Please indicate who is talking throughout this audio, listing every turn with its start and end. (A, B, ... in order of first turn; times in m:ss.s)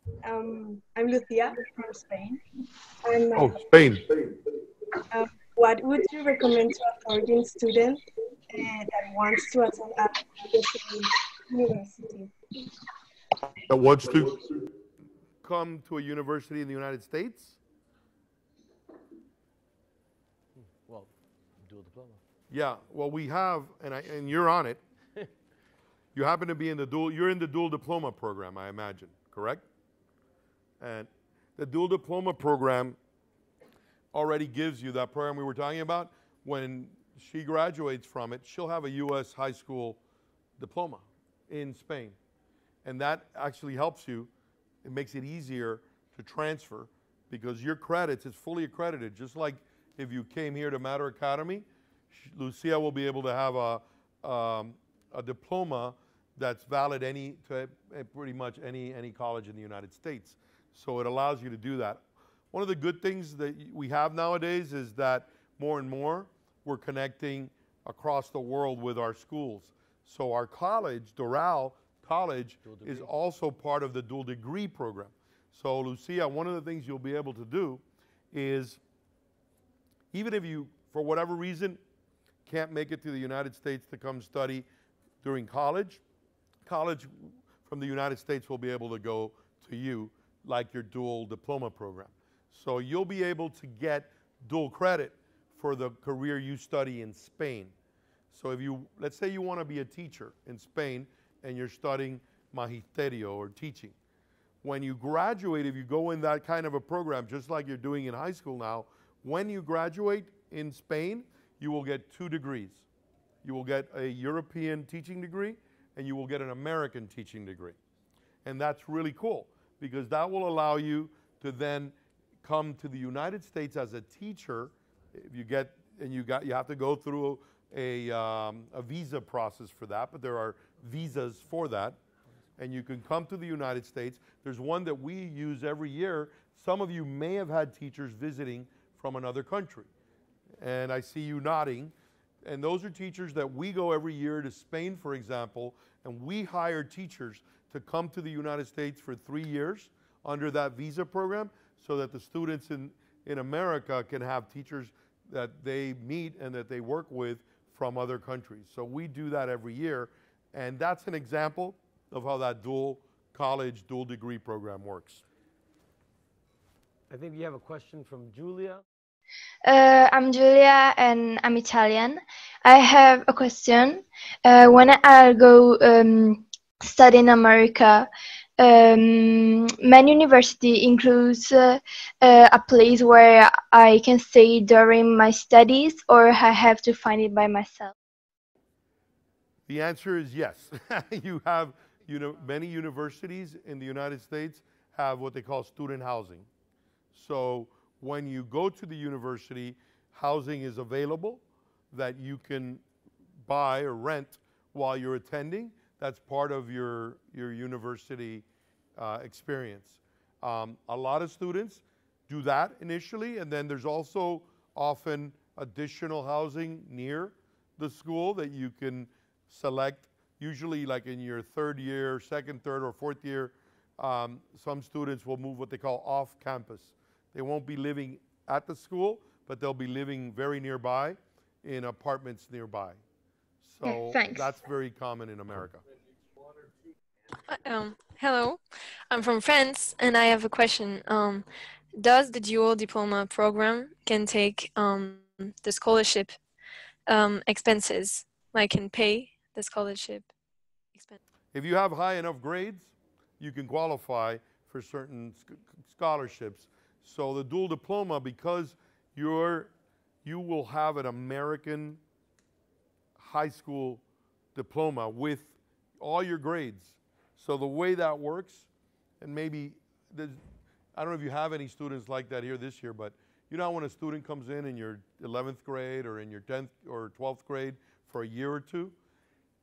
0:00.2-0:02.4 A
0:03.0-0:03.6 A
0:03.3-0:04.1 B
0:05.1-0:12.3 A
0:13.6-0:14.5 B
0:15.4-0:17.6 B
0:20.6-0:22.2 C
0:22.5-0:24.8 B
0:26.1-0:29.6 B
0:30.8-0:33.0 B
0:34.1-0:40.0 B
0:40.6-0:42.2 B
0:42.8-0:44.3 B
0:44.8-1:18.8 B
1:12.6-1:13.1 C
1:20.1-1:21.8 B
1:22.4-1:24.6 B
1:25.2-1:26.0 B
1:26.6-1:37.7 B
1:38.3-1:43.9 B
1:44.6-1:52.8 B
1:53.4-1:57.8 B
1:58.4-2:12.0 B
2:12.6-2:19.9 B
2:20.6-2:45.2 B
2:47.1-2:48.8 C
2:49.6-3:07.9 D
3:09.7-3:16.5 B
3:17.1-3:22.8 B
3:23.4-3:28.4 B
3:29.0-3:53.0 B
3:53.6-3:55.8 B
3:53.8-3:54.6 D
3:57.5-4:01.4 E
4:02.0-4:06.4 E
4:07.1-4:10.3 E
4:11.5-4:19.7 B
4:20.2-4:22.0 B
4:23.2-4:24.0 B
4:24.5-4:28.7 B
4:29.2-4:30.4 B
4:31.0-4:38.9 B